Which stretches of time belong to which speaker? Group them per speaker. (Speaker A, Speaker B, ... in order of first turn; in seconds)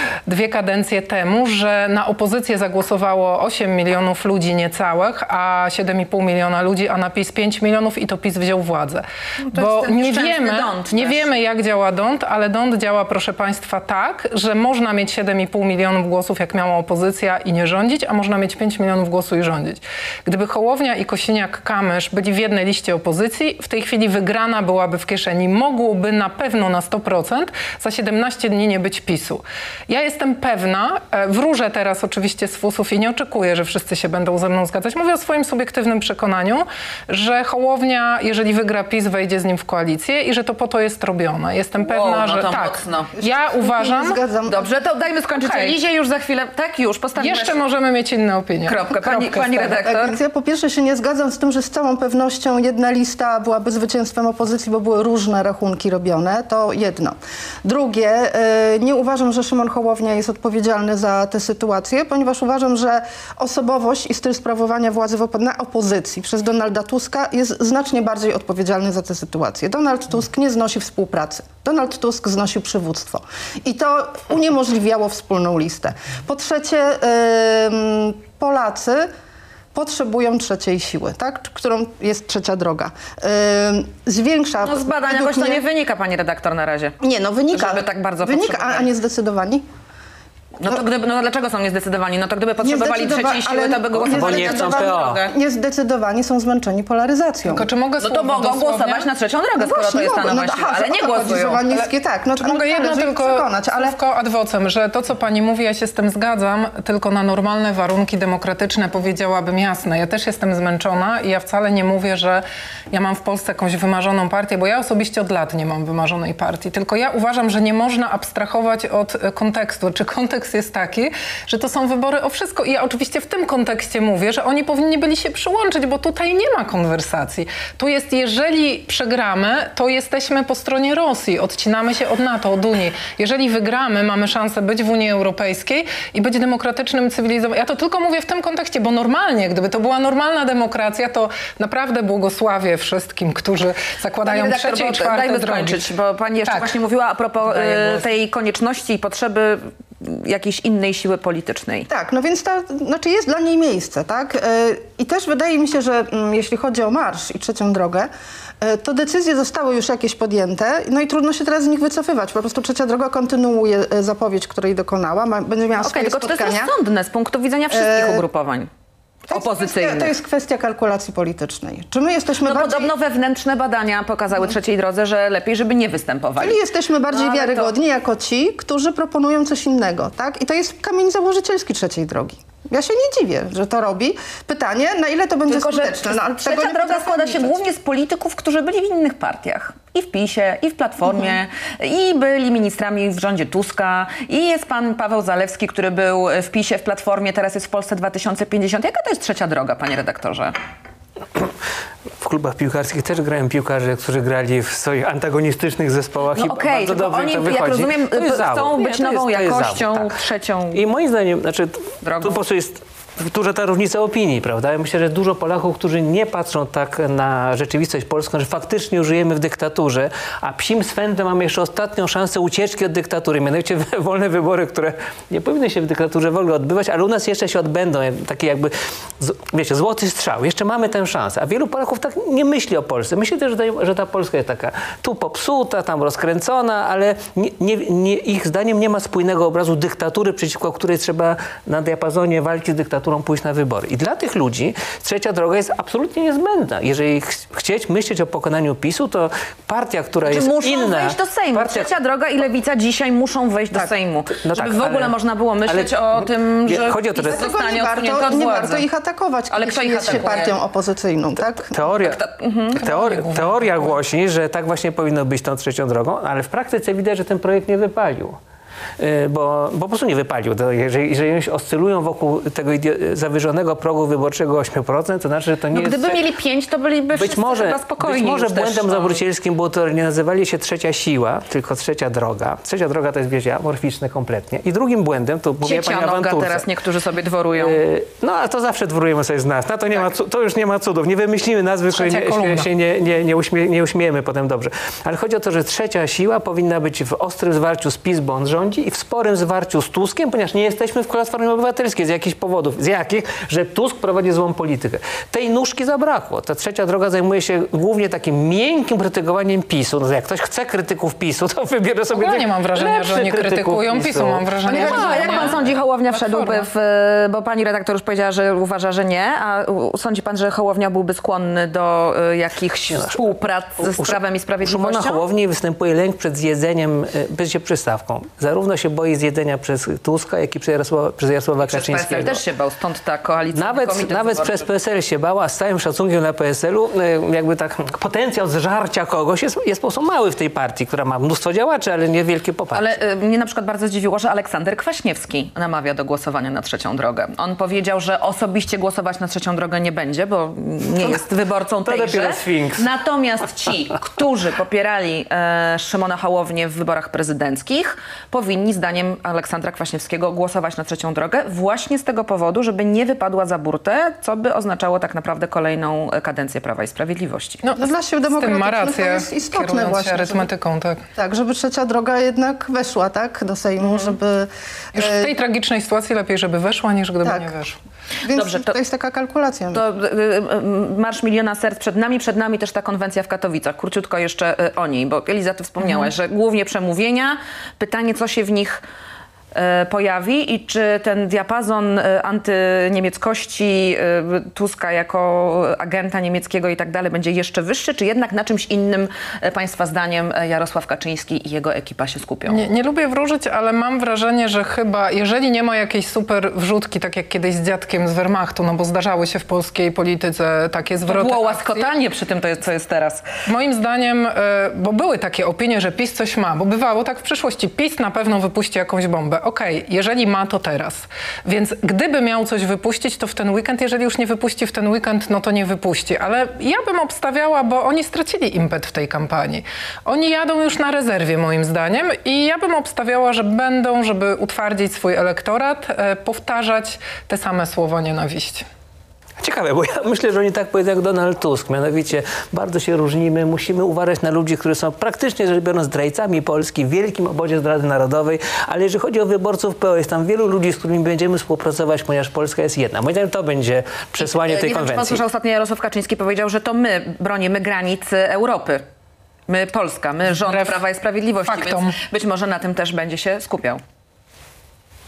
Speaker A: 0.2-44.2, 45.4-45.8, 47.2-49.7, 97.4-99.1, 101.1-145.8, 146.4-146.8, 147.4-148.1, 262.8-264.0, 291.9-292.7, 312.1-316.7, 367.6-371.0, 374.9-377.8, 385.8-386.1, 402.5-411.9, 413.4-438.6, 460.4-460.8, 461.4-461.9
Speaker B: 9.4-11.3, 41.8-43.1, 44.5-47.6, 48.6-50.2, 84.6-86.9, 87.5-88.9, 90.6-95.3, 98.0-101.6, 144.2-151.9, 165.8-168.7, 169.3-170.1, 172.4-177.7, 185.5-200.5, 206.3-210.8, 212.0-212.4, 250.2-258.9, 259.5-260.5, 261.8-262.8, 275.7-279.2, 285.6-287.8, 314.6-325.2, 331.6-334.7, 342.7-367.6, 373.8-374.1, 378.3-378.7, 379.7-388.8, 389.5-402.6, 411.1-413.2, 454.2-458.8, 459.5-463.8
Speaker C: 43.2-44.7, 49.6-79.1, 79.7-85.6, 87.0-89.6, 92.6-97.7, 99.5-104.0, 151.9-158.1, 158.6-166.7, 167.7-168.2, 169.3-172.9, 176.4-187.6, 191.0-191.3, 257.3-261.7, 367.8-370.5, 371.1-375.3, 377.2-377.5, 378.2-379.8
Speaker D: 94.0-95.2, 202.2-210.1, 210.7-251.9, 254.4-257.5, 261.7-262.2, 262.7-268.4, 269.0-276.1, 277.1-286.7, 287.6-315.7, 322.9-332.4, 333.5-342.9, 351.8-352.9, 439.4-455.2